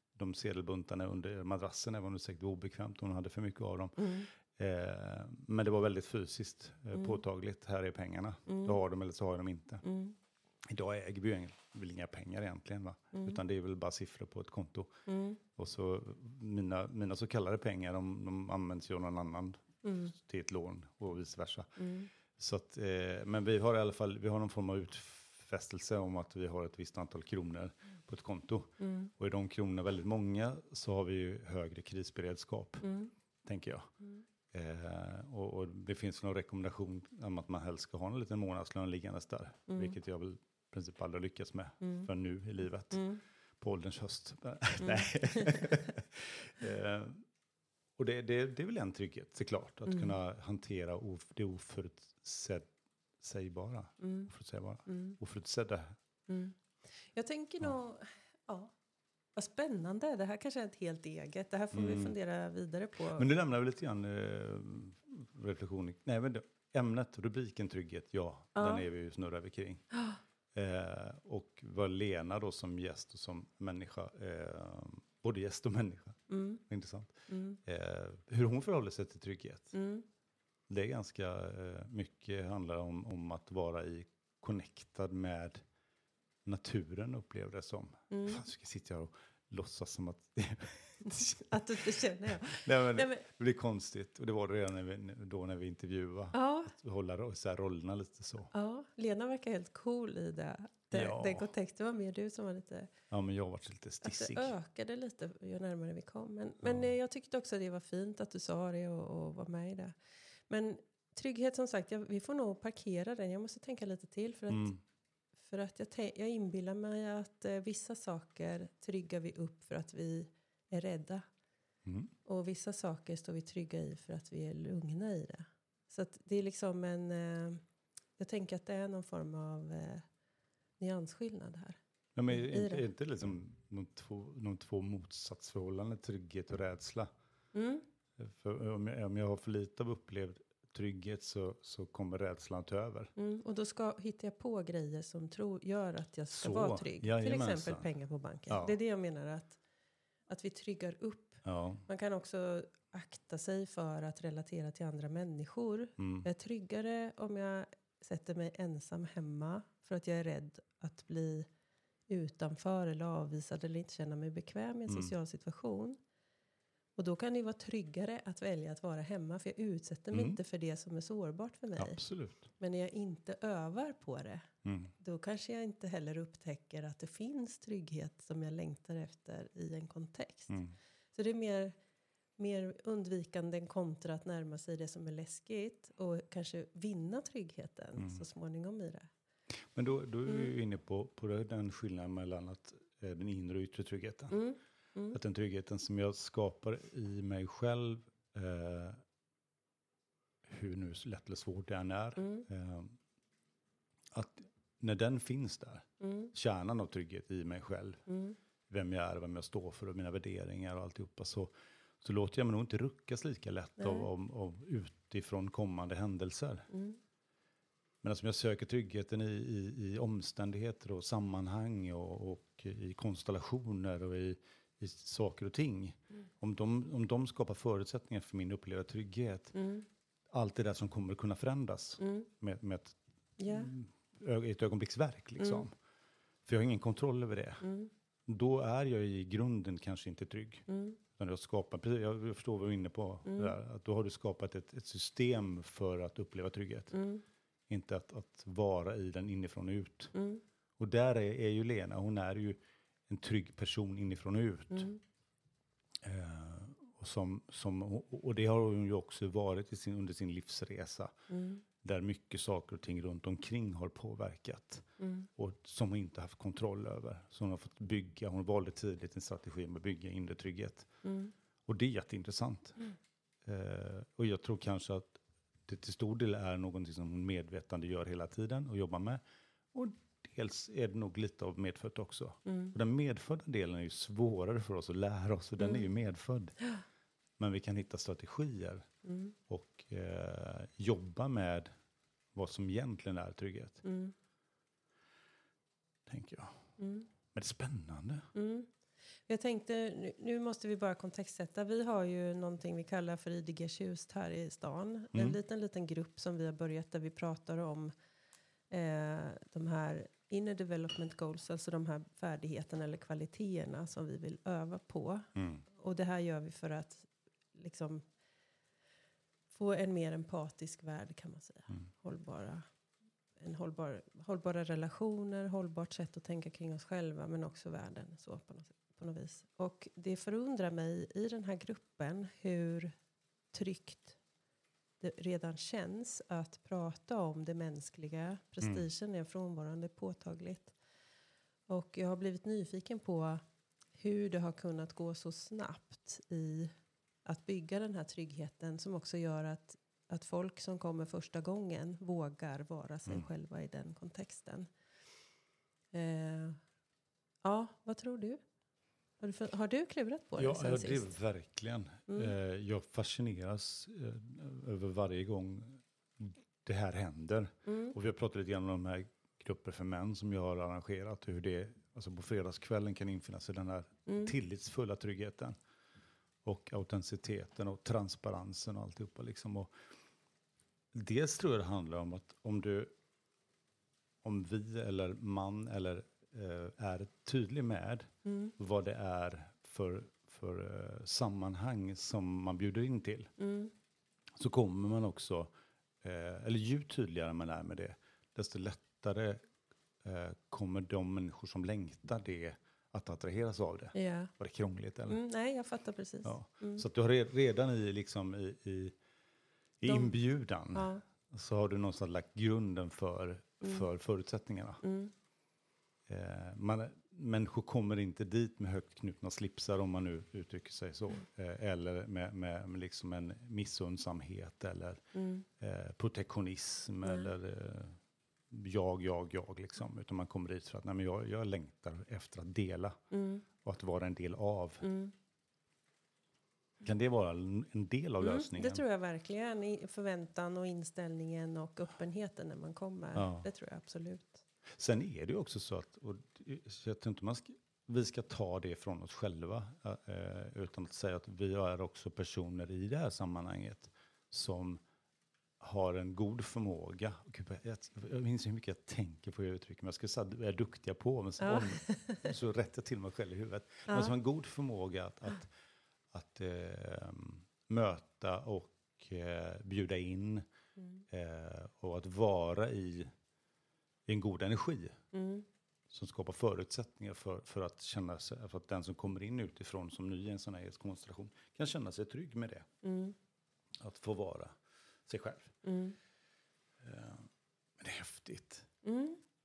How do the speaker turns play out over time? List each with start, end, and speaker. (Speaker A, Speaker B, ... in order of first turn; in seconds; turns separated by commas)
Speaker A: 0.1-9.8, Speaker B: 4.0-4.3, Speaker B: 6.9-7.2, Speaker B: 8.5-8.8, Speaker B: 9.8-10.2, Speaker A: 10.7-14.9, Speaker B: 15.1-15.4, Speaker A: 15.6-21.8, Speaker B: 19.8-20.1, Speaker B: 21.8-22.1, Speaker A: 22.3-32.9, Speaker B: 28.8-29.1, Speaker B: 32.8-33.1, Speaker A: 33.4-33.9, Speaker A: 34.5-47.2, Speaker B: 39.7-40.0, Speaker B: 41.8-42.1, Speaker B: 42.9-43.2, Speaker B: 44.8-45.7, Speaker A: 48.0-52.7, Speaker B: 49.9-50.1, Speaker A: 53.2-56.0, Speaker B: 54.0-54.3, Speaker B: 54.9-55.2, Speaker B: 56.3-58.7, Speaker B: 59.4-63.3, Speaker A: 61.7-62.1, Speaker A: 63.1-69.8, Speaker B: 68.5-68.9, Speaker B: 69.9-70.2, Speaker A: 70.5-79.7, Speaker B: 76.3-76.6, Speaker B: 77.3-77.6, Speaker B: 79.7-80.0, Speaker A: 80.7-85.6, Speaker A: 86.4-98.5, Speaker B: 88.1-88.4, Speaker B: 91.0-93.2, Speaker B: 96.3-96.7, Speaker B: 98.5-102.9, Speaker A: 100.9-101.5, Speaker A: 103.1-104.5, Speaker B: 104.0-114.7, Speaker A: 106.6-106.9, Speaker A: 114.5-114.8, Speaker B: 115.4-121.2, Speaker A: 121.8-122.1, Speaker B: 122.2-127.6, Speaker B: 128.2-130.0, Speaker B: 130.8-131.8, Speaker A: 132.2-137.1, Speaker B: 132.3-132.8, Speaker B: 137.5-137.8, Speaker A: 138.2-143.1, Speaker B: 143.2-149.6, Speaker A: 146.3-147.9, Speaker A: 148.5-148.8, Speaker B: 150.3-161.5, Speaker A: 151.4-151.8, Speaker A: 156.0-156.3, Speaker B: 162.1-166.0, Speaker A: 164.9-165.1, Speaker B: 166.9-172.0, Speaker A: 170.1-170.4, Speaker A: 171.8-172.5, Speaker B: 172.6-180.6, Speaker A: 174.6-174.9, Speaker A: 180.5-180.7, Speaker B: 181.1-181.7, Speaker B: 182.4-189.1, Speaker A: 188.0-188.2, Speaker A: 189.7-194.4, Speaker B: 194.3-195.2, Speaker A: 195.1-199.0, Speaker A: 200.4-202.9, Speaker B: 202.2-202.4, Speaker A: 204.1-208.0, Speaker B: 206.0-206.3, Speaker B: 208.1-208.4, Speaker A: 208.7-216.7, Speaker B: 213.8-214.1, Speaker B: 216.7-217.0, Speaker A: 218.0-229.5, Speaker B: 229.5-229.9, Speaker A: 230.3-235.7, Speaker B: 232.0-232.3, Speaker B: 233.4-233.7, Speaker B: 235.4-235.6, Speaker A: 236.4-237.7, Speaker B: 237.6-237.9, Speaker A: 238.3-247.0, Speaker B: 240.7-241.0, Speaker B: 243.2-243.5, Speaker B: 246.9-247.2, Speaker A: 247.7-250.1, Speaker B: 250.1-250.4, Speaker A: 250.8-254.9, Speaker A: 256.0-261.1, Speaker B: 261.3-261.6, Speaker A: 261.8-270.9, Speaker B: 265.0-265.3, Speaker B: 271.0-271.3, Speaker A: 271.6-272.8, Speaker A: 273.4-279.2, Speaker A: 279.7-286.6, Speaker B: 282.4-282.7, Speaker B: 285.6-285.9, Speaker A: 287.4-288.9, Speaker B: 289.0-289.3, Speaker A: 289.5-291.7, Speaker A: 292.3-293.8, Speaker B: 293.8-294.1, Speaker A: 296.1-296.6, Speaker B: 296.8-297.1, Speaker A: 297.3-298.3, Speaker B: 298.3-298.7, Speaker B: 299.3-307.9, Speaker B: 308.7-318.0, Speaker A: 315.3-315.6, Speaker B: 319.5-322.6, Speaker B: 323.4-332.9, Speaker B: 333.5-334.2, Speaker B: 335.0-340.7, Speaker B: 341.7-343.4, Speaker B: 343.9-346.7, Speaker B: 347.2-354.7, Speaker B: 355.9-356.6, Speaker B: 357.4-358.4, Speaker B: 359.2-361.1, Speaker A: 360.4-375.6, Speaker B: 367.6-367.9, Speaker B: 374.1-374.3, Speaker A: 376.4-379.7, Speaker A: 380.9-382.9, Speaker A: 384.2-393.3, Speaker B: 388.2-388.5, Speaker B: 393.4-393.7, Speaker A: 394.4-395.5, Speaker A: 396.0-399.4, Speaker A: 400.0-405.2, Speaker B: 403.9-404.3, Speaker B: 405.1-406.8, Speaker A: 406.2-408.9, Speaker A: 409.8-414.8, Speaker B: 409.9-410.1, Speaker B: 410.7-411.0, Speaker B: 414.8-415.1, Speaker A: 416.1-425.0, Speaker B: 425.1-425.4, Speaker A: 425.6-428.0, Speaker A: 428.5-433.0, Speaker B: 433.1-433.4, Speaker A: 433.6-434.9, Speaker B: 434.8-435.1, Speaker A: 436.8-438.8, Speaker B: 438.2-444.4, Speaker A: 443.1-443.5, Speaker A: 444.8-454.8, Speaker A: 455.6-465.5, Speaker B: 461.4-462.3, Speaker B: 463.9-464.1, Speaker A: 466.1-470.4, Speaker A: 471.1-473.1, Speaker A: 474.1-475.0, Speaker B: 475.1-475.4, Speaker A: 475.9-482.7, Speaker B: 482.8-483.1, Speaker A: 483.8-484.5, Speaker A: 485.1-485.6, Speaker B: 485.6-486.0, Speaker A: 486.8-487.3, Speaker A: 487.8-488.7, Speaker B: 488.8-489.2